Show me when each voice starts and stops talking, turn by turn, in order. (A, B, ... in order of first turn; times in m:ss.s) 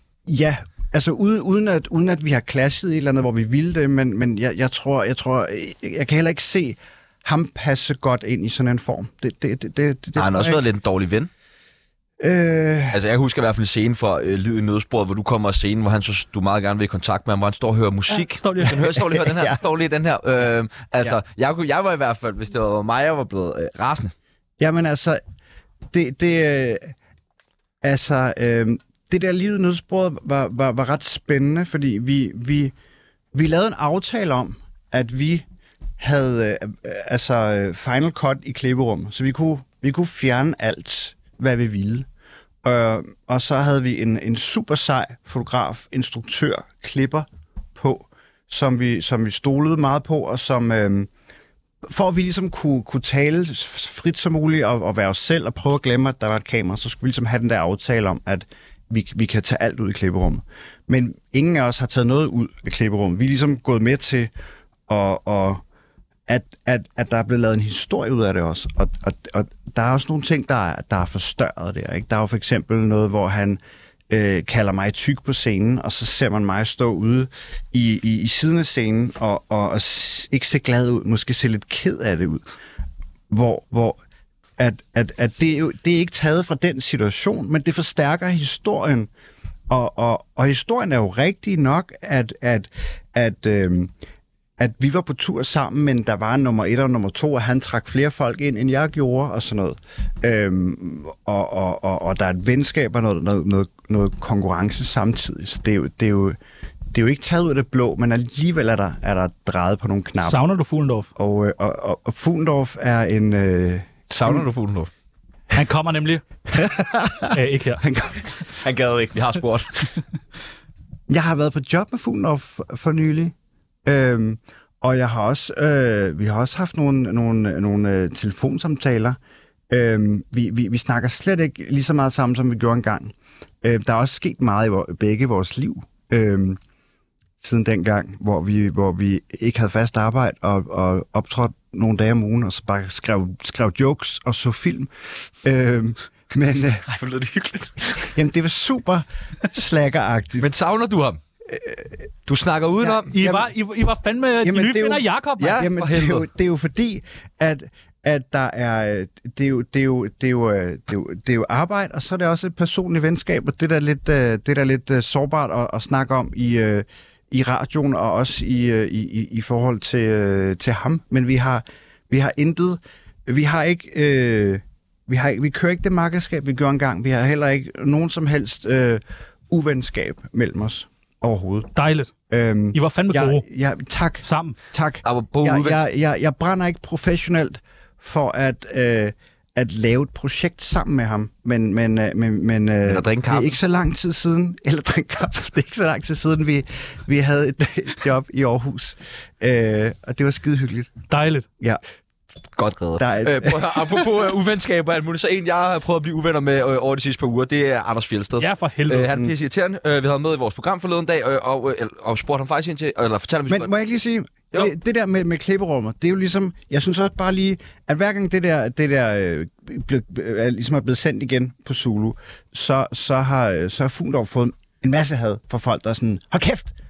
0:00.2-0:10.6 A
0:10.2-0:11.3 B
0:12.2-0:13.0 A
0:12.9-0:24.1 B
0:18.1-0:18.9 C
0:19.2-0:19.6 A
0:24.6-0:25.2 A
0:25.9-0:26.9 A
0:27.8-0:32.7 A
0:33.3-0:35.4 A
0:36.0-0:42.1 A
0:42.6-0:51.1 A
0:51.8-1:04.3 A
1:04.9-1:05.6 A
1:06.3-1:22.4 A
1:23.3-1:24.0 A
1:24.6-1:29.1 A
1:29.7-1:33.9 A
1:34.6-1:46.4 A
1:46.9-1:50.4 A
1:50.2-1:51.1 C
1:51.2-1:54.4 A
1:54.1-1:54.9 B
1:55.5-1:56.2 C
1:56.5-1:58.3 A
1:57.3-1:57.8 C
1:58.6-1:59.9 B
2:01.1-2:03.3 A
2:03.8-2:09.2 A
2:09.7-2:16.6 A
2:17.4-2:24.9 A
2:25.4-2:26.8 A
2:26.8-2:28.1 B
2:28.1-2:30.5 A
2:30.4-2:31.2 B
2:31.5-2:31.8 A
2:32.2-2:33.1 B
2:32.8-2:33.5 A
2:33.1-2:35.6 C
2:34.4-3:01.7 A
2:35.4-2:36.2 B
3:01.7-3:02.1 C
3:02.3-3:20.9 A
3:02.7-3:03.4 C
3:04.2-3:04.6 C
3:05.0-3:05.8 B
3:12.8-3:13.5 B
3:21.1-3:21.4 C
3:22.6-3:33.7 B
3:23.0-3:24.0 A
3:28.4-3:29.1 C
3:33.5-3:46.7 A